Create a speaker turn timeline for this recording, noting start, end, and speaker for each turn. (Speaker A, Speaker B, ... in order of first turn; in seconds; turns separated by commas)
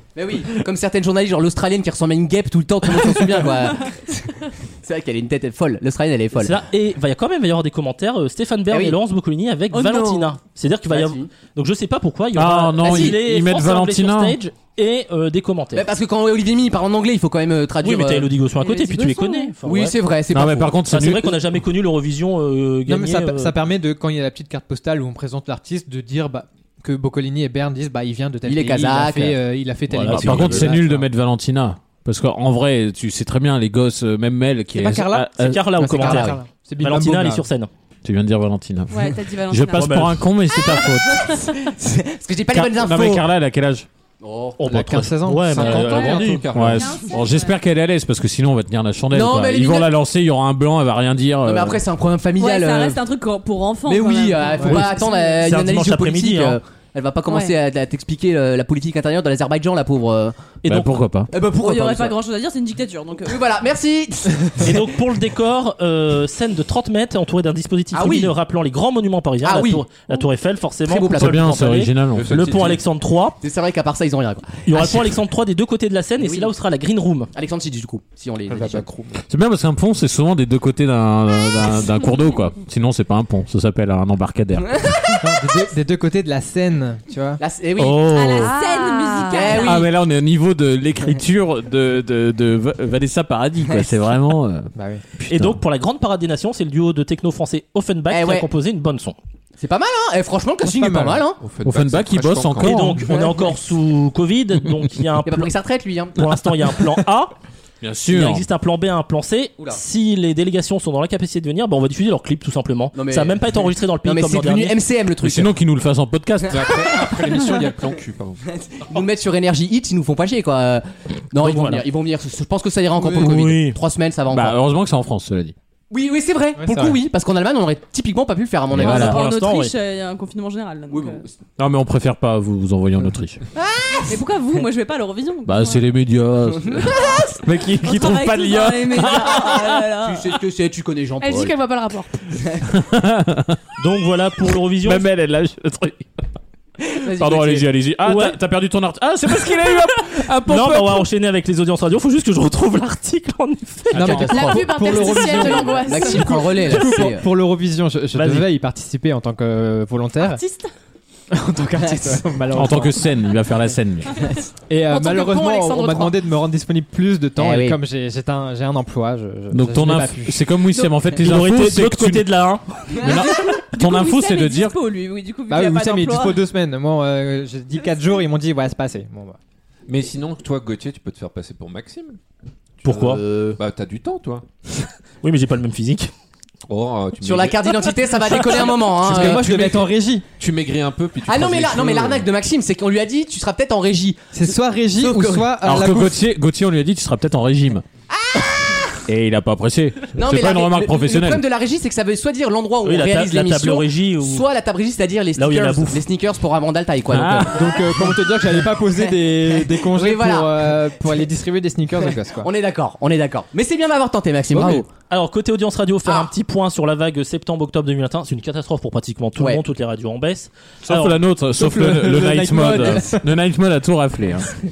Speaker A: 0.1-6.5, Speaker B: 6.4-15.9, Speaker A: 8.7-9.0, Speaker C: 9.7-10.3, Speaker A: 10.9-11.3, Speaker D: 12.3-14.4, Speaker A: 12.8-13.1, Speaker A: 15.7-18.3, Speaker B: 17.8-20.0, Speaker C: 18.6-19.5, Speaker A: 19.6-20.7, Speaker D: 20.3-21.4, Speaker B: 20.9-23.6, Speaker E: 22.9-31.1, Speaker A: 28.4-29.4, Speaker B: 29.9-30.7, Speaker D: 30.0-35.6, Speaker E: 34.7-35.3, Speaker B: 35.4-37.7, Speaker A: 35.8-36.4, Speaker E: 35.9-37.4, Speaker D: 38.0-41.2, Speaker C: 38.9-41.3, Speaker B: 39.8-40.2, Speaker A: 41.6-43.2, Speaker D: 42.5-43.9, Speaker A: 44.2-44.6, Speaker B: 44.6-46.5, Speaker E: 44.6-46.3, Speaker F: 45.5-47.0, Speaker D: 45.7-51.8, Speaker C: 45.9-47.6, Speaker A: 49.1-49.9, Speaker A: 51.4-53.0, Speaker C: 52.4-55.5, Speaker A: 53.8-60.4, Speaker B: 54.7-56.6, Speaker C: 57.3-57.5, Speaker B: 60.6-60.9, Speaker D: 60.6-61.3, Speaker A: 61.3-62.1, Speaker C: 61.5-63.4, Speaker A: 63.2-64.8, Speaker B: 64.6-73.4, Speaker A: 67.9-68.3, Speaker A: 69.4-70.2, Speaker A: 70.9-71.5, Speaker D: 71.1-72.3, Speaker F: 72.1-72.8, Speaker A: 73.4-75.1, Speaker B: 74.7-77.3, Speaker A: 76.2-76.5, Speaker A: 77.3-78.9, Speaker F: 78.5-79.2, Speaker D: 79.3-84.9, Speaker E: 85.2-87.4, Speaker A: 87.4-88.5, Speaker B: 87.8-88.5, Speaker C: 88.0-89.9, Speaker G: 88.4-89.7, Speaker A: 89.3-89.9, Speaker D: 89.6-95.6, Speaker E: 94.7-95.0, Speaker B: 95.3-99.2, Speaker A: 98.1-98.5, Speaker A: 99.6-101.4, Speaker E: 100.6-101.2, Speaker F: 101.4-103.0, Speaker D: 101.7-103.1, Speaker B: 102.6-105.5, Speaker A: 103.1-103.5, Speaker A: 105.2-106.2, Speaker B: 106.2-107.3, Speaker D: 107.8-108.5, Speaker B: 108.1-114.8, Speaker A: 112.9-115.5, Speaker D: 115.2-116.8, Speaker F: 116.5-118.4, Speaker A: 118.5-124.6, Speaker B: 121.4-121.8, Speaker B: 123.0-123.8, Speaker D: 124.3-125.5, Speaker A: 125.9-129.2, Speaker E: 126.6-127.0, Speaker D: 128.7-129.2, Speaker C: 128.8-131.2, Speaker B: 128.9-129.7, Speaker A: 130.9-131.3, Speaker D: 131.6-133.4, Speaker A: 133.6-134.1, Speaker C: 134.1-135.8, Speaker D: 135.4-139.8, Speaker A: 136.5-137.3, Speaker C: 137.8-140.2, Speaker A: 140.0-141.5, Speaker G: 141.2-142.1, Speaker D: 142.6-143.6, Speaker B: 143.8-145.1, Speaker D: 144.8-146.1, Speaker A: 146.8-147.7, Speaker D: 147.2-151.1, Speaker B: 148.0-148.4, Speaker B: 150.4-155.6, Speaker D: 153.9-154.4, Speaker E: 153.9-160.4, Speaker G: 154.4-156.6, Speaker A: 155.3-157.2, Speaker B: 158.1-158.5, Speaker G: 160.2-160.7, Speaker E: 161.3-163.0, Speaker D: 162.5-164.2, Speaker E: 164.7-170.4, Speaker G: 164.9-166.2, Speaker A: 167.4-167.8, Speaker D: 169.5-172.3, Speaker B: 171.1-172.7, Speaker D: 172.8-174.8, Speaker C: 172.9-176.4, Speaker E: 175.5-179.4, Speaker F: 179.9-182.2, Speaker B: 182.8-183.2, Speaker A: 182.9-183.6, Speaker F: 182.9-184.4, Speaker B: 185.2-186.1, Speaker F: 186.7-188.6, Speaker A: 187.2-189.8, Speaker E: 189.0-190.2, Speaker F: 189.2-189.7, Speaker F: 190.4-192.2, Speaker A: 191.3-195.5, Speaker E: 194.3-196.2, Speaker D: 195.6-197.8, Speaker A: 198.1-198.9, Speaker D: 199.1-201.4, Speaker A: 200.1-207.6, Speaker B: 202.8-204.5, Speaker B: 205.3-206.0, Speaker D: 207.1-207.7, Speaker E: 207.5-212.5, Speaker A: 209.0-210.8, Speaker A: 212.0-214.9, Speaker B: 214.6-221.2, Speaker A: 216.0-216.3, Speaker D: 220.8-224.5, Speaker E: 221.5-223.2